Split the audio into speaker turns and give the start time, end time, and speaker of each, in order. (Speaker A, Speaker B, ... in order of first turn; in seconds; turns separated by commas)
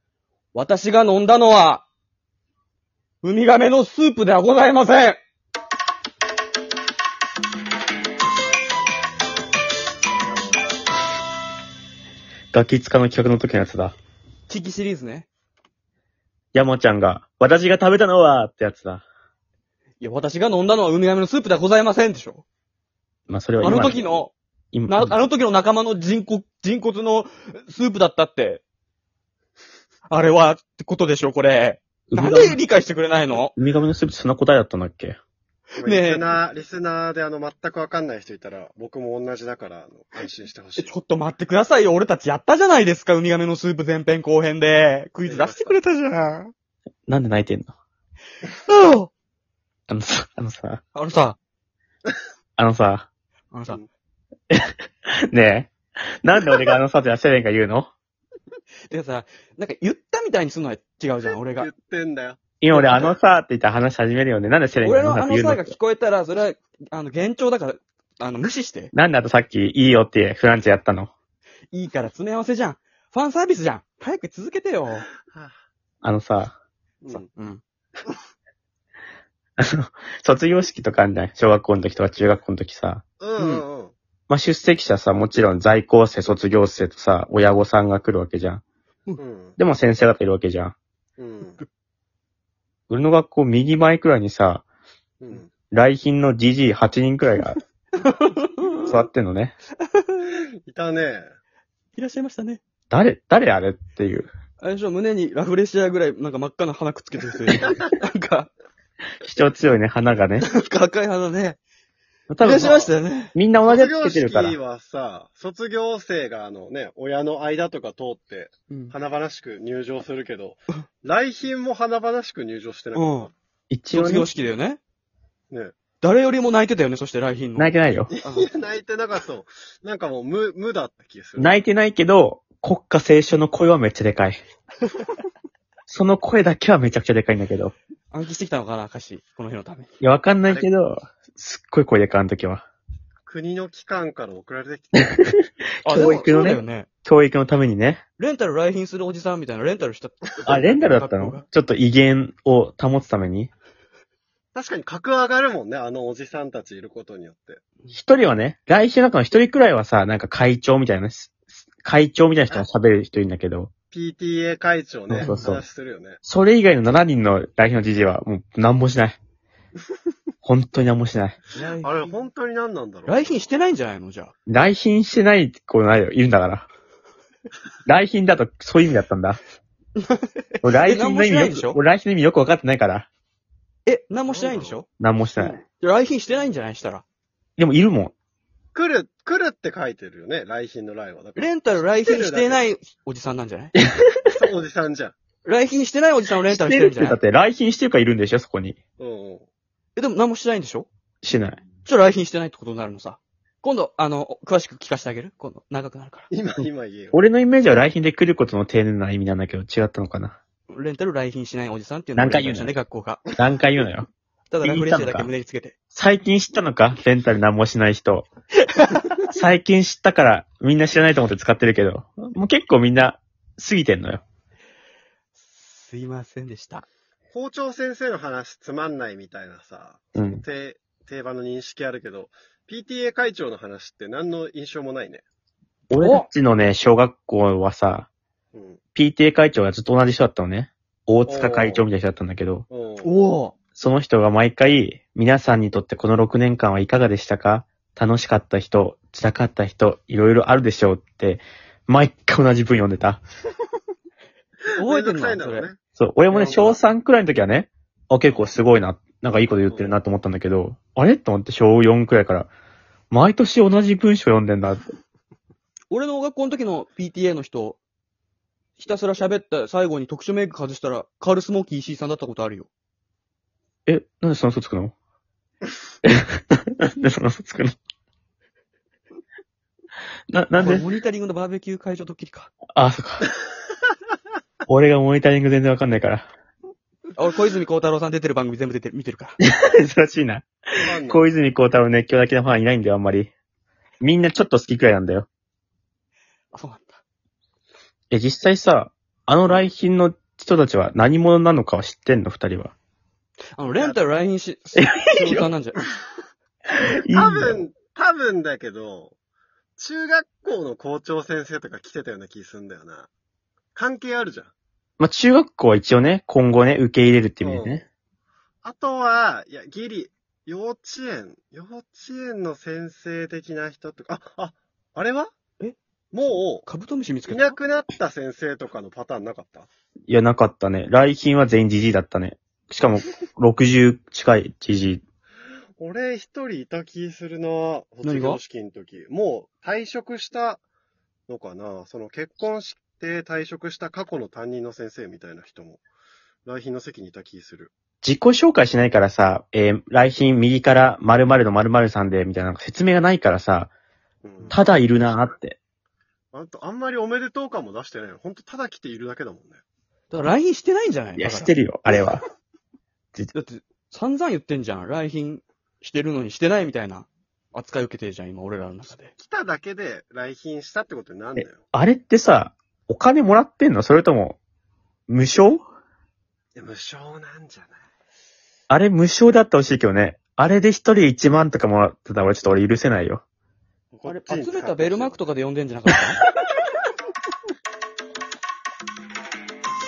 Speaker A: 0.5-1.9, Speaker A: 3.2-5.2, Speaker B: 12.5-13.9, Speaker A: 14.5-15.3, Speaker B: 16.5-19.0, Speaker A: 20.0-22.4, Speaker B: 23.3-24.0, Speaker A: 23.6-24.3, Speaker B: 24.7-25.2, Speaker A: 24.9-28.6, Speaker A: 30.1-33.5, Speaker B: 32.1-32.6, Speaker B: 33.4-35.2, Speaker C: 35.8-40.9, Speaker A: 35.8-36.3, Speaker A: 40.8-46.5, Speaker C: 45.2-45.8, Speaker B: 47.1-47.8, Speaker A: 48.7-49.1, Speaker B: 49.9-50.8, Speaker A: 51.0-51.4, Speaker B: 52.6-53.1, Speaker A: 53.5-53.8, Speaker B: 54.5-57.9, Speaker A: 58.9-61.7, Speaker C: 61.6-63.1, Speaker B: 62.6-65.7, Speaker A: 62.7-63.1, Speaker A: 64.8-68.9, Speaker B: 68.9-71.1, Speaker A: 71.7-75.1, Speaker B: 76.0-76.6, Speaker C: 77.0-77.3, Speaker A: 77.3-77.6, Speaker B: 79.6-83.0, Speaker C: 83.2-83.9, Speaker A: 83.4-83.7, Speaker B: 84.3-88.6, Speaker C: 89.2-89.6, Speaker B: 89.6-90.8, Speaker C: 91.2-91.6, Speaker B: 92.9-94.6, Speaker C: 95.2-95.5, Speaker B: 95.7-97.6, Speaker A: 98.0-98.9, Speaker B: 98.8-99.5, Speaker A: 99.9-100.2, Speaker C: 100.7-101.2, Speaker A: 102.0-102.6, Speaker B: 102.9-104.3, Speaker A: 104.6-108.5, Speaker B: 109.2-110.5, Speaker A: 110.4-111.6, Speaker B: 112.3-114.6, Speaker A: 112.4-113.3, Speaker C: 113.6-123.3, Speaker A: 123.0-123.3, Speaker B: 123.7-124.3, Speaker A: 123.9-124.8, Speaker A: 126.0-127.7, Speaker B: 127.6-128.1, Speaker C: 128.1-131.6, Speaker B: 131.4-134.4, Speaker B: 135.9-137.7, Speaker A: 138.1-139.9, Speaker B: 140.0-142.7, Speaker C: 143.3-145.2, Speaker A: 145.8-146.9, Speaker B: 145.9-148.0, Speaker A: 148.2-151.4, Speaker B: 150.5-153.5, Speaker C: 154.6-157.6, Speaker B: 157.9-163.7, Speaker C: 163.9-166.2, Speaker B: 165.1-165.6, Speaker A: 165.2-165.6, Speaker B: 166.2-169.2, Speaker B: 170.4-171.4, Speaker A: 171.6-172.2, Speaker C: 171.8-173.5, Speaker A: 173.1-174.3, Speaker B: 174.5-176.7, Speaker B: 177.9-179.4, Speaker A: 180.0-180.3, Speaker B: 180.6-183.1, Speaker A: 180.8-181.8, Speaker A: 183.9-184.9, Speaker C: 184.3-184.8, Speaker B: 185.0-185.6, Speaker A: 185.4-187.0, Speaker B: 187.6-188.1, Speaker C: 188.8-192.6, Speaker A: 191.4-193.8, Speaker C: 194.3-195.2, Speaker A: 195.4-197.2, Speaker B: 196.5-198.8, Speaker C: 199.0-199.5, Speaker A: 200.0-200.9, Speaker B: 201.2-201.6, Speaker A: 201.8-206.3, Speaker C: 206.3-207.2, Speaker B: 207.1-210.4, Speaker A: 210.7-213.2, Speaker B: 212.2-212.8, Speaker B: 213.4-214.1, Speaker A: 214.5-215.7, Speaker B: 214.6-215.3, Speaker B: 215.9-218.3, Speaker A: 218.8-219.1, Speaker B: 219.3-224.2, Speaker A: 225.3-226.9, Speaker C: 227.3-235.2, Speaker B: 230.2-230.4, Speaker B: 235.9-238.1, Speaker A: 236.0-236.3, Speaker C: 238.5-238.8, Speaker B: 238.9-242.7, Speaker C: 241.3-241.9, Speaker C: 242.7-243.1, Speaker A: 243.0-243.5, Speaker B: 243.8-253.2, Speaker A: 254.8-255.7, Speaker C: 254.8-255.8, Speaker B: 256.0-262.5, Speaker A: 256.3-256.8, Speaker C: 259.6-260.0, Speaker B: 263.1-264.8, Speaker A: 265.9-267.8, Speaker A: 268.8-272.7, Speaker B: 273.9-274.9, Speaker B: 276.0-277.8, Speaker B: 280.3-280.9, Speaker A: 280.6-282.5, Speaker B: 282.7-283.3, Speaker B: 284.7-286.3, Speaker A: 287.2-289.4, Speaker B: 289.4-293.3, Speaker C: 290.8-291.3, Speaker B: 294.0-295.3, Speaker A: 296.5-297.0, Speaker B: 298.1-302.7, Speaker A: 303.6-305.8, Speaker C: 303.7-304.0, Speaker B: 304.8-305.5, Speaker B: 306.7-307.6, Speaker C: 307.1-309.1, Speaker C: 309.8-313.1, Speaker C: 313.8-314.5, Speaker B: 315.0-317.8, Speaker C: 317.4-317.8, Speaker C: 318.6-325.3, Speaker A: 325.6-327.6, Speaker C: 326.1-326.7, Speaker C: 327.3-329.7, Speaker B: 330.1-335.0, Speaker C: 335.8-340.6, Speaker A: 338.0-338.4, Speaker C: 341.3-345.8, Speaker C: 346.4-347.7, Speaker B: 348.0-353.7, Speaker C: 354.2-354.6, Speaker B: 354.5-355.6, Speaker C: 356.3-359.6, Speaker A: 360.1-361.5, Speaker B: 361.2-362.2, Speaker A: 363.3-369.1, Speaker C: 369.2-371.6, Speaker B: 371.4-374.4, Speaker B: 375.1-375.6, Speaker C: 376.6-377.8, Speaker B: 378.7-383.2, Speaker C: 383.9-385.2, Speaker A: 384.1-386.2